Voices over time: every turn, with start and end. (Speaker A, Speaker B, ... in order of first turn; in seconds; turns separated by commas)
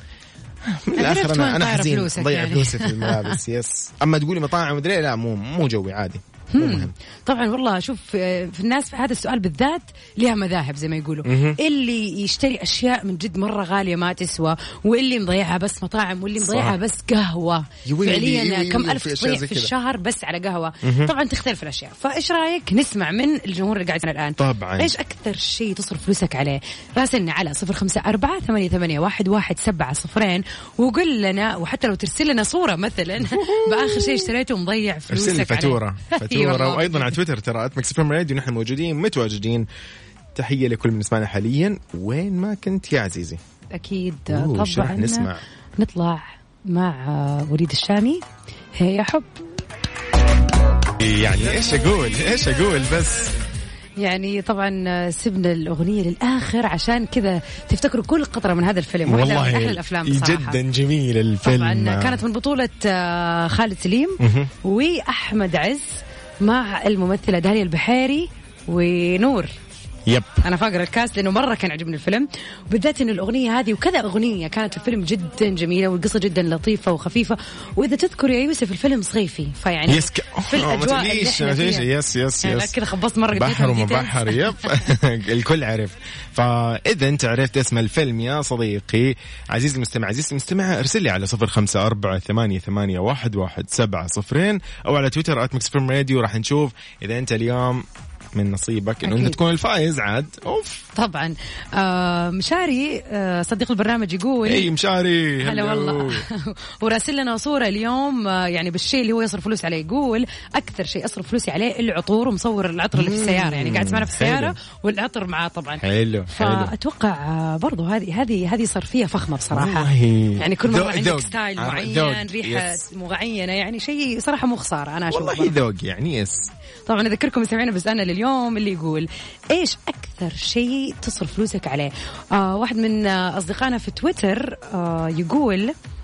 Speaker A: 0.6-6.9, Speaker B: 0.9-3.4, Speaker B: 6.5-37.2, Speaker A: 11.2-11.6, Speaker A: 16.4-16.8, Speaker A: 17.9-19.7, Speaker A: 20.8-21.1, Speaker A: 24.4-24.9, Speaker A: 33.2-34.3, Speaker A: 35.1-39.6, Speaker A: 40.3-43.4, Speaker B: 43.7-48.2, Speaker A: 44.3-45.4, Speaker B: 48.8-49.3, Speaker A: 51.0-53.3, Speaker B: 54.0-60.6, Speaker A: 59.0-62.2, Speaker B: 61.4-65.8, Speaker A: 64.2-64.5, Speaker B: 66.4-69.5, Speaker A: 70.1-70.4, Speaker B: 70.4-81.9, Speaker A: 79.9-82.8, Speaker B: 82.4-84.9, Speaker A: 83.3-100.8, Speaker B: 99.0-99.4, Speaker B: 100.9-104.7, Speaker A: 104.4-106.2, Speaker B: 105.4-125.6, Speaker A: 112.9-114.5, Speaker A: 115.8-116.7, Speaker A: 119.5-122.8, Speaker A: 125.1-126.5, Speaker B: 126.8-135.7